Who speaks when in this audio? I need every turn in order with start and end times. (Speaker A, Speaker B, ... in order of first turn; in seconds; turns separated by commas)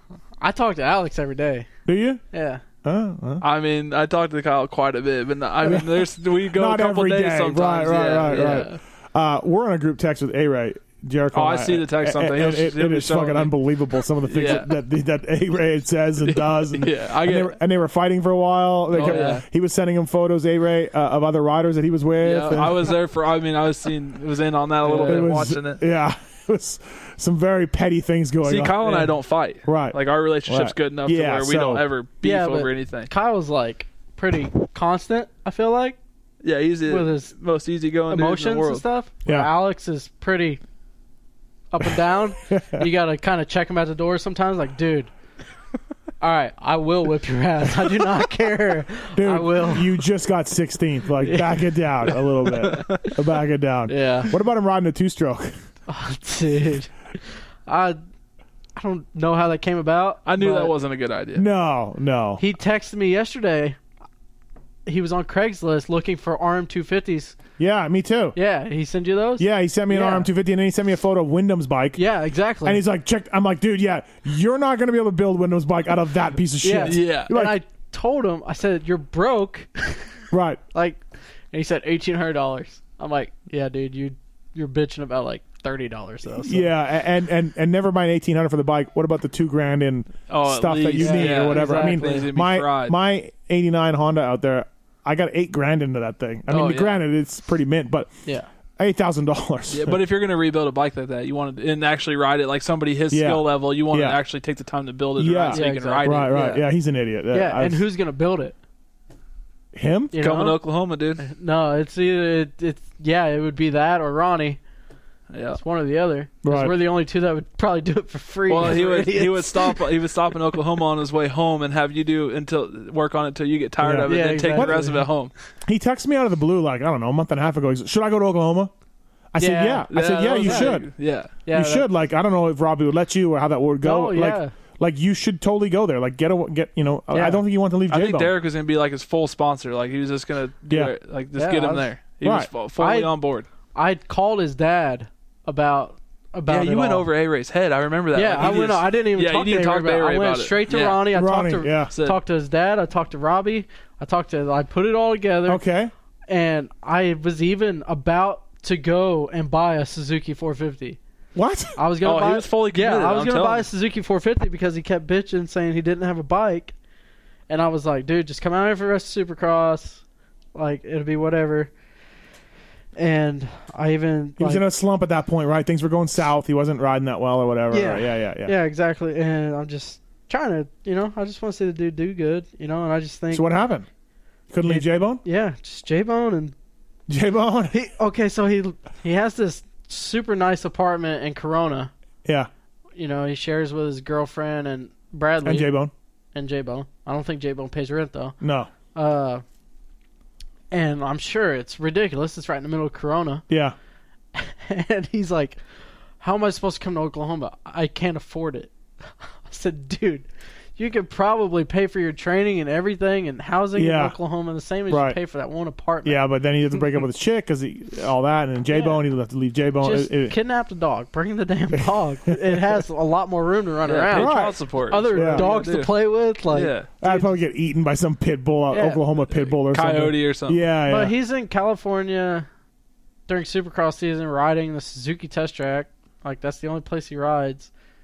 Speaker A: 0.4-1.7, Speaker B: 1.9-2.2, Speaker A: 2.3-2.6, Speaker B: 2.8-3.4, Speaker C: 3.4-8.7, Speaker B: 5.6-23.0, Speaker A: 8.3-8.8, Speaker C: 11.3-13.6, Speaker C: 14.3-14.8, Speaker C: 16.2-17.6, Speaker A: 18.9-19.4, Speaker C: 18.9-19.4, Speaker C: 22.2-25.8, Speaker A: 24.9-25.3, Speaker B: 24.9-29.1, Speaker C: 28.4-33.1, Speaker B: 29.6-31.9, Speaker A: 32.2-36.0, Speaker C: 36.4-38.8, Speaker A: 36.9-37.3, Speaker A: 38.1-40.6, Speaker B: 39.2-39.5, Speaker A: 41.7-45.1, Speaker B: 42.5-42.9, Speaker A: 46.2-49.9, Speaker B: 49.1-55.5, Speaker A: 51.2-51.6, Speaker C: 52.6-53.1, Speaker A: 53.9-54.3, Speaker A: 55.9-56.9, Speaker A: 57.6-58.0, Speaker A: 58.8-60.7, Speaker C: 60.2-61.4, Speaker B: 61.3-62.4, Speaker A: 62.4-63.8, Speaker A: 64.8-67.4, Speaker B: 67.6-68.3, Speaker A: 68.3-70.3, Speaker B: 69.4-72.0, Speaker A: 72.0-72.8, Speaker B: 72.6-77.5, Speaker A: 76.6-80.0, Speaker C: 76.8-77.3, Speaker B: 80.3-80.6, Speaker A: 80.7-81.0, Speaker A: 81.5-86.7, Speaker B: 86.4-98.1, Speaker C: 90.3-93.0, Speaker A: 91.0-92.3, Speaker C: 96.5-97.0, Speaker B: 98.8-100.0, Speaker C: 99.7-106.3, Speaker B: 103.1-104.2, Speaker B: 105.2-107.8, Speaker A: 105.5-106.6, Speaker A: 107.3-108.5, Speaker B: 109.7-110.1, Speaker A: 110.1-110.6, Speaker C: 110.2-111.2, Speaker A: 111.2-114.6, Speaker C: 115.3-115.6, Speaker A: 115.5-119.8, Speaker B: 116.4-116.8, Speaker C: 118.5-125.3, Speaker B: 123.8-125.0, Speaker A: 124.0-125.1, Speaker B: 125.7-128.7, Speaker B: 129.3-130.9, Speaker A: 129.4-130.7, Speaker C: 129.9-131.4, Speaker A: 131.4-131.8, Speaker B: 131.5-138.3, Speaker A: 133.8-134.5, Speaker A: 137.1-137.4, Speaker C: 137.9-143.5, Speaker A: 141.3-141.9, Speaker B: 142.2-142.5, Speaker A: 142.8-143.1, Speaker A: 143.7-147.1, Speaker C: 146.5-151.1, Speaker A: 148.1-155.6, Speaker B: 151.1-151.9, Speaker C: 151.9-152.2, Speaker B: 155.4-155.9, Speaker A: 156.3-161.0, Speaker B: 161.3-161.8, Speaker A: 161.8-166.7, Speaker C: 162.0-163.7, Speaker A: 167.5-170.0, Speaker A: 170.5-171.7, Speaker A: 172.9-174.6, Speaker B: 174.4-178.5, Speaker A: 177.7-183.5, Speaker B: 183.3-183.9, Speaker B: 184.5-185.2, Speaker A: 184.6-186.5, Speaker B: 187.1-187.7, Speaker A: 187.7-191.9, Speaker B: 192.2-192.5, Speaker A: 192.9-195.7, Speaker B: 195.4-195.9, Speaker A: 196.3-198.3, Speaker B: 198.4-198.7, Speaker A: 198.9-199.4, Speaker A: 200.7-203.4, Speaker B: 203.5-203.7, Speaker A: 204.3-205.6, Speaker A: 206.2-208.7, Speaker A: 209.4-216.2, Speaker B: 213.8-214.2, Speaker B: 214.9-215.2, Speaker B: 216.0-220.3, Speaker A: 218.7-219.0, Speaker A: 219.8-227.3, Speaker C: 223.8-226.9, Speaker B: 224.1-225.5, Speaker B: 227.0-231.1, Speaker A: 228.7-229.0, Speaker C: 229.5-230.6, Speaker A: 230.9-232.5, Speaker A: 233.3-237.7